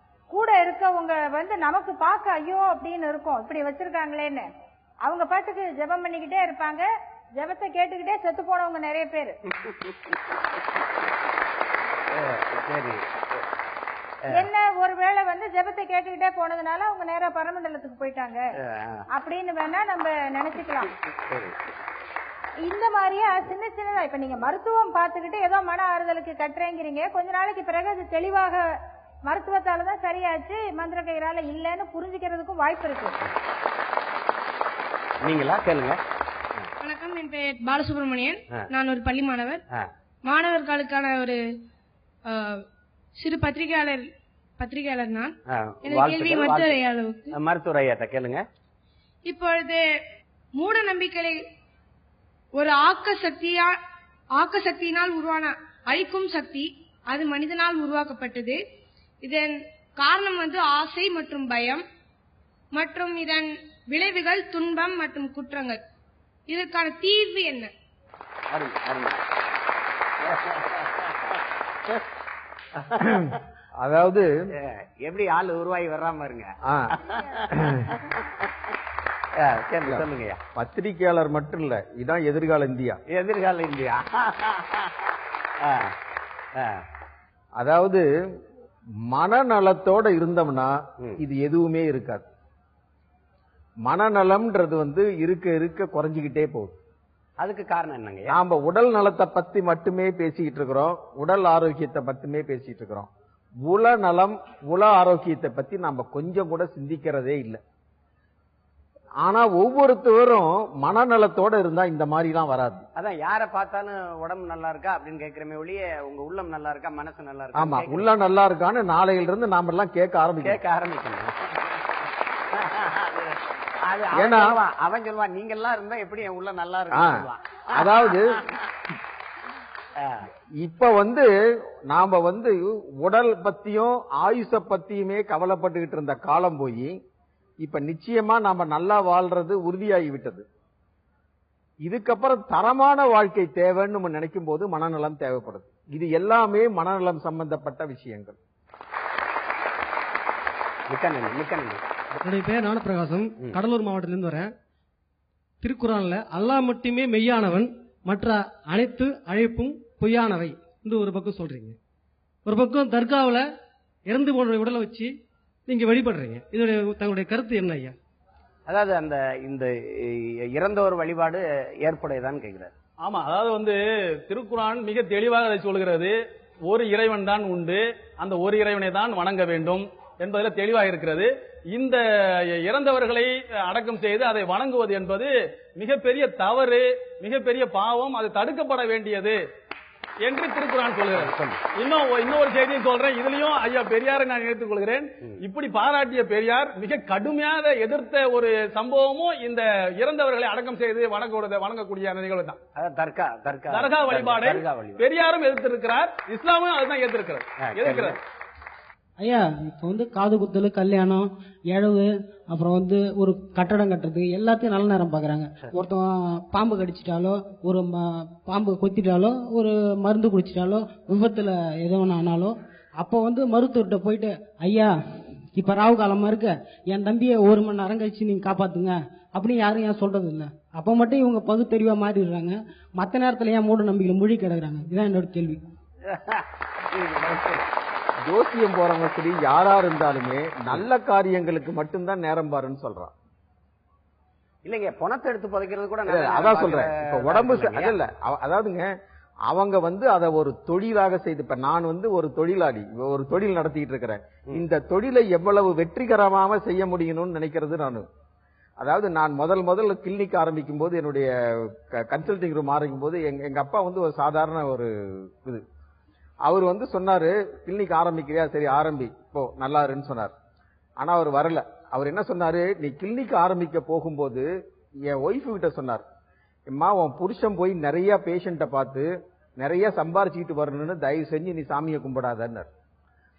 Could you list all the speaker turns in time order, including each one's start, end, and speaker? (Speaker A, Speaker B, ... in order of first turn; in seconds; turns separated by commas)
Speaker A: 0.3-4.5, Speaker A: 5.0-9.4, Speaker B: 9.5-10.2, Speaker B: 12.1-13.4, Speaker B: 14.2-14.5, Speaker A: 14.4-18.4, Speaker B: 18.6-19.1, Speaker A: 19.1-20.9, Speaker B: 21.3-21.6, Speaker A: 22.6-28.6, Speaker A: 29.2-33.2, Speaker B: 35.2-36.0, Speaker C: 36.8-39.6, Speaker C: 40.2-41.4, Speaker C: 42.3-42.6, Speaker C: 43.2-44.0, Speaker C: 44.6-45.3, Speaker B: 45.5-46.8, Speaker C: 45.9-47.4, Speaker B: 47.3-48.4, Speaker C: 49.3-49.8, Speaker C: 50.5-51.4, Speaker C: 52.6-53.8, Speaker C: 54.4-58.6, Speaker C: 59.2-61.8, Speaker C: 62.7-65.8, Speaker C: 66.5-67.7, Speaker B: 68.5-69.2, Speaker B: 70.2-72.0, Speaker B: 72.8-73.4, Speaker D: 73.0-74.3, Speaker B: 74.6-78.5, Speaker D: 76.7-77.0, Speaker D: 77.5-77.9, Speaker B: 79.4-80.4, Speaker D: 79.9-83.0, Speaker B: 83.1-86.0, Speaker B: 86.6-86.8, Speaker D: 87.6-88.0, Speaker D: 89.1-92.3, Speaker D: 93.8-96.8, Speaker B: 97.4-98.3, Speaker D: 98.3-103.1, Speaker D: 103.6-107.6, Speaker D: 109.2-112.9, Speaker B: 113.0-118.1, Speaker D: 117.6-120.6, Speaker B: 120.4-121.8, Speaker B: 122.5-128.6, Speaker D: 124.2-124.6, Speaker D: 126.9-127.2, Speaker D: 127.7-128.4, Speaker B: 130.0-130.3, Speaker D: 130.6-131.3, Speaker D: 131.9-137.0, Speaker D: 137.6-140.5, Speaker D: 141.8-148.4, Speaker B: 150.9-151.8, Speaker E: 152.1-154.5, Speaker E: 155.6-161.8, Speaker E: 162.4-163.4, Speaker E: 164.1-165.1, Speaker E: 165.7-167.9, Speaker B: 168.7-172.7, Speaker F: 173.0-189.4, Speaker F: 190.2-202.6, Speaker B: 191.1-191.6, Speaker B: 202.8-205.0, Speaker F: 203.7-208.2, Speaker B: 207.6-208.2, Speaker G: 209.2-224.9, Speaker G: 225.5-235.6, Speaker B: 236.0-237.7, Speaker D: 238.3-243.1, Speaker B: 244.7-247.9, Speaker D: 246.1-248.9, Speaker D: 249.5-258.1, Speaker D: 258.8-265.6, Speaker D: 266.4-270.3, Speaker D: 271.0-274.5, Speaker D: 275.1-276.0, Speaker D: 276.7-279.1, Speaker D: 279.6-282.7